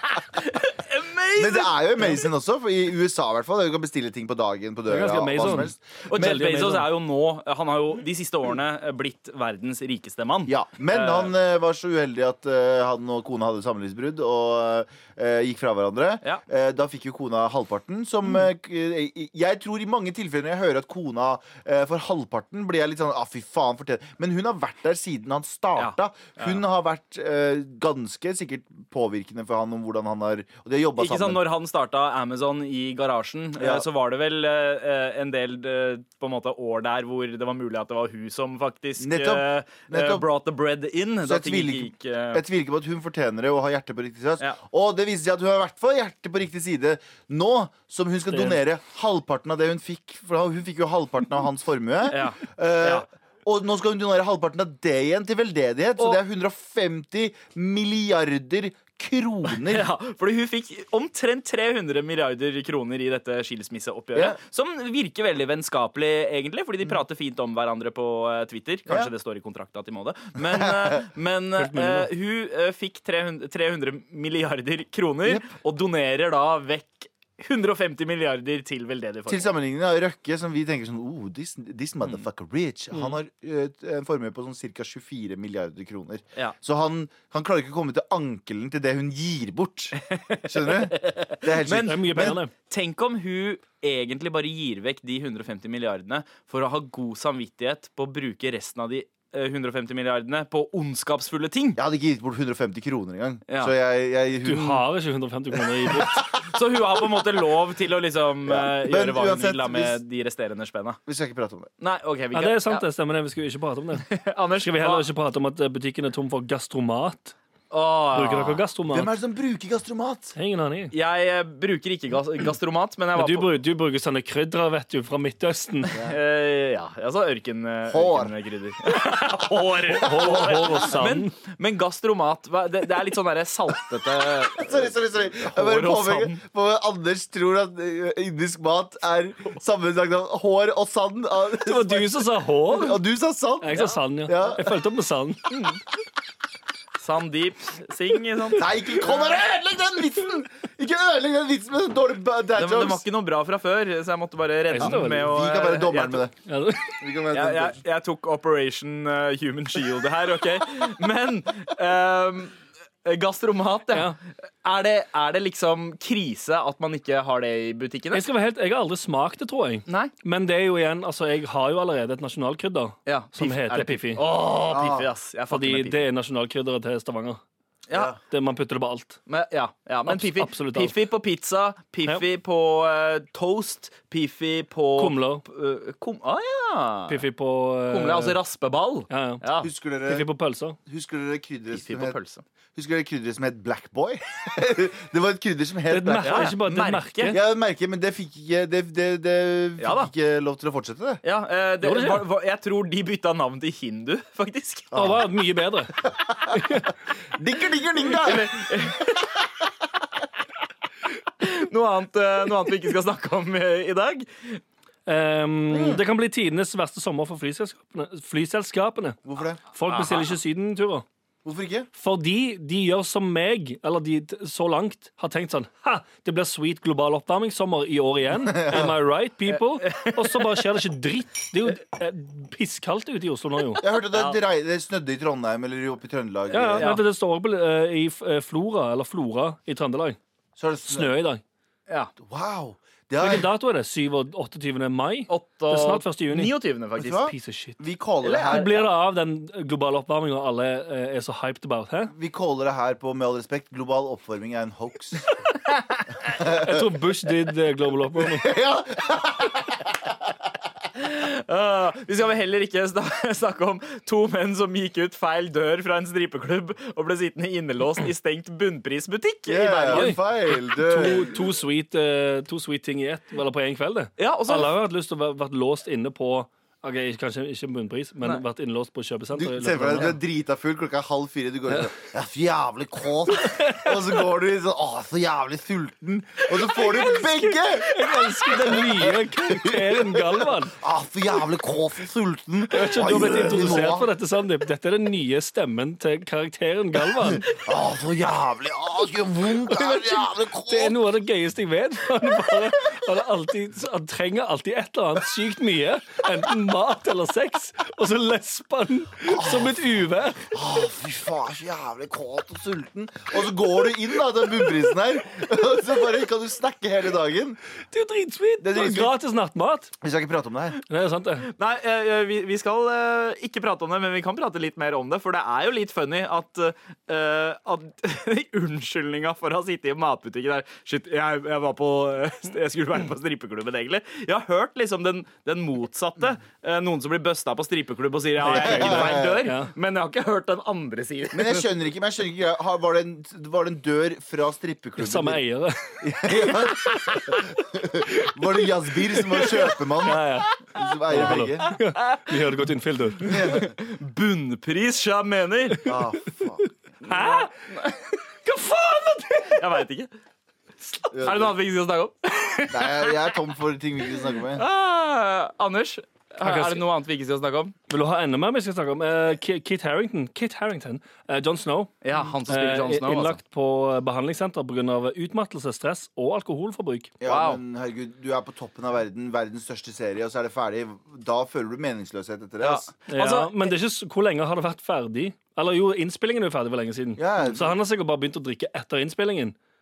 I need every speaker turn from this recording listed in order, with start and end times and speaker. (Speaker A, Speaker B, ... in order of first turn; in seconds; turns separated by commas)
Speaker A: 0.3-2.2, Speaker B: 1.4-5.8, Speaker C: 4.9-6.9, Speaker A: 6.0-11.3, Speaker B: 10.5-31.4, Speaker A: 25.8-26.6, Speaker A: 31.0-42.4, Speaker B: 33.6-33.9, Speaker B: 39.0-40.3, Speaker B: 41.2-59.9, Speaker C: 48.3-48.6, Speaker A: 52.1-53.1, Speaker A: 59.7-79.5, Speaker B: 70.5-71.0, Speaker C: 71.6-72.1, Speaker B: 79.3-92.4, Speaker A: 90.0-101.8, Speaker C: 91.8-92.5, Speaker B: 101.8-104.9, Speaker C: 104.5-106.2, Speaker A: 106.5-111.0, Speaker B: 108.5-110.0, Speaker B: 111.1-111.7, Speaker A: 111.8-112.8, Speaker C: 112.3-114.1, Speaker A: 114.1-115.1, Speaker C: 114.6-117.3, Speaker A: 117.7-118.6, Speaker C: 118.1-119.1, Speaker B: 118.9-120.3, Speaker C: 120.4-120.9, Speaker A: 120.9-123.5, Speaker C: 123.2-125.9, Speaker A: 125.9-134.9, Speaker B: 127.9-128.3, Speaker C: 129.5-131.3, Speaker B: 130.1-130.8, Speaker B: 134.6-144.8, Speaker A: 135.4-136.4, Speaker C: 141.5-143.0, Speaker C: 143.6-145.5, Speaker A: 145.5-145.8, Speaker A: 147.0-149.2, Speaker B: 148.6-153.0, Speaker A: 152.5-156.2, Speaker C: 154.7-155.3, Speaker B: 154.8-156.3, Speaker C: 156.5-156.9, Speaker B: 157.0-157.8, Speaker A: 157.3-168.2, Speaker C: 168.1-174.2, Speaker A: 169.9-170.1, Speaker A: 173.1-176.0, Speaker B: 174.7-175.1, Speaker C: 175.5-177.4, Speaker A: 177.9-178.2, Speaker B: 177.9-178.2, Speaker C: 178.3-179.2, Speaker A: 179.3-187.2, Speaker C: 180.1-180.9, Speaker C: 185.0-185.4, Speaker C: 187.1-188.4, Speaker A: 187.9-189.7, Speaker C: 189.1-189.4, Speaker B: 189.6-190.3, Speaker C: 190.1-190.8, Speaker B: 190.9-192.2, Speaker A: 191.7-192.4, Speaker B: 192.8-196.6, Speaker C: 195.9-197.4, Speaker A: 196.2-197.4, Speaker B: 197.3-201.2, Speaker A: 199.8-200.1, Speaker A: 201.2-204.9, Speaker C: 201.8-202.2, Speaker B: 204.9-205.2, Speaker C: 204.9-206.0, Speaker B: 206.1-206.6, Speaker C: 206.5-206.9, Speaker B: 207.4-208.7, Speaker A: 208.1-209.3, Speaker A: 211.4-214.6, Speaker C: 215.1-219.2, Speaker B: 219.2-219.6, Speaker C: 219.7-221.1, Speaker A: 219.9-220.3, Speaker B: 221.4-221.9, Speaker C: 222.0-233.8, Speaker B: 228.3-229.0, Speaker A: 229.5-230.6, Speaker B: 233.8-236.9, Speaker A: 234.1-234.4, Speaker C: 236.5-240.2, Speaker A: 236.8-237.0, Speaker B: 240.6-241.1, Speaker C: 240.9-241.4, Speaker A: 241.9-242.1, Speaker B: 242.2-243.5, Speaker C: 243.2-247.8, Speaker A: 245.3-247.2, Speaker B: 247.0-248.7, Speaker A: 248.2-248.8, Speaker C: 248.5-252.1, Speaker B: 252.1-255.3, Speaker B: 256.2-256.9, Speaker C: 256.3-258.5, Speaker B: 258.2-260.2, Speaker A: 260.9-270.2, Speaker B: 269.5-271.3, Speaker C: 269.9-280.2, Speaker A: 274.2-274.7, Speaker B: 279.3-294.1, Speaker C: 283.3-284.2, Speaker C: 286.5-290.8, Speaker C: 292.7-297.5, Speaker B: 297.4-301.0, Speaker C: 300.6-310.5, Speaker B: 309.2-309.8, Speaker B: 310.5-317.6, Speaker C: 317.9-319.9, Speaker B: 318.6-319.1, Speaker B: 320.0-320.8, Speaker C: 320.9-321.5, Speaker A: 321.4-341.7, Speaker C: 338.4-339.7, Speaker B: 338.6-339.5, Speaker B: 341.3-345.4, Speaker C: 345.0-347.2, Speaker B: 346.0-351.7, Speaker C: 349.1-350.6, Speaker C: 351.1-353.7, Speaker A: 351.6-352.3, Speaker B: 353.2-353.7, Speaker A: 353.4-355.9, Speaker B: 355.8-356.7, Speaker A: 357.0-358.1, Speaker C: 357.1-357.5, Speaker C: 358.4-359.6, Speaker A: 359.4-360.1, Speaker A: 360.8-363.4, Speaker B: 361.1-361.6, Speaker B: 362.7-364.6, Speaker A: 364.5-367.8, Speaker C: 366.4-366.9, Speaker C: 367.9-377.1, Speaker A: 372.0-373.4, Speaker B: 377.2-382.9, Speaker A: 377.2-377.6, Speaker A: 382.6-383.7, Speaker C: 383.1-389.6, Speaker B: 387.2-387.8